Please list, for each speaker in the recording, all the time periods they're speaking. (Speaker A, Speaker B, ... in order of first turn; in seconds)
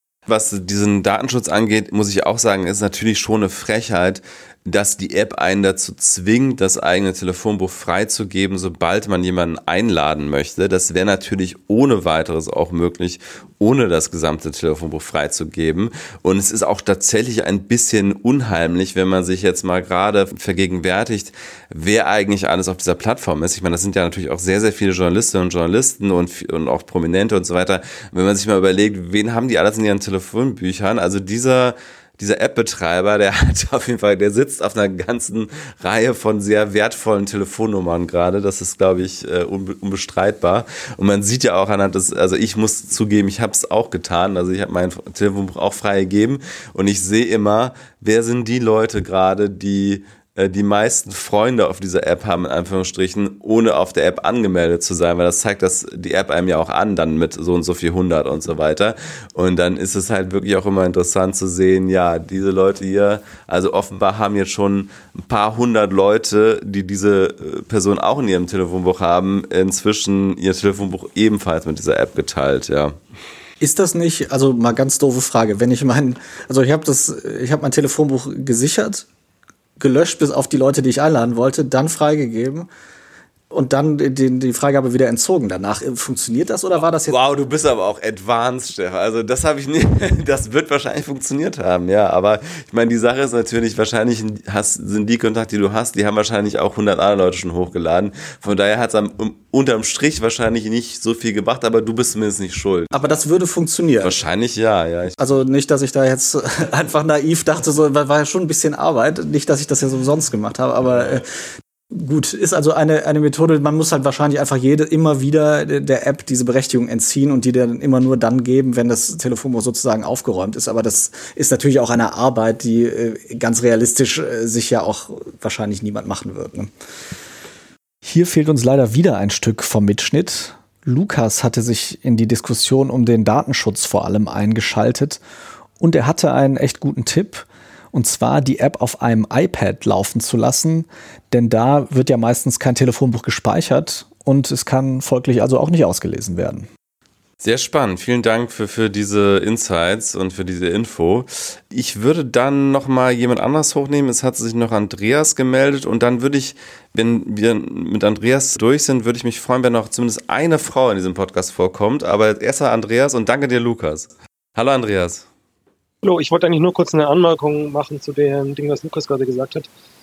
Speaker A: 0.3-73.0, 86.7-102.9, 104.0-105.2, 147.4-165.2
Speaker B: 73.6-79.0, 79.8-82.7, 83.5-87.2, 102.9-104.2, 105.2-111.3, 111.9-126.7, 128.0-135.2, 135.8-146.7
Speaker C: 166.0-169.7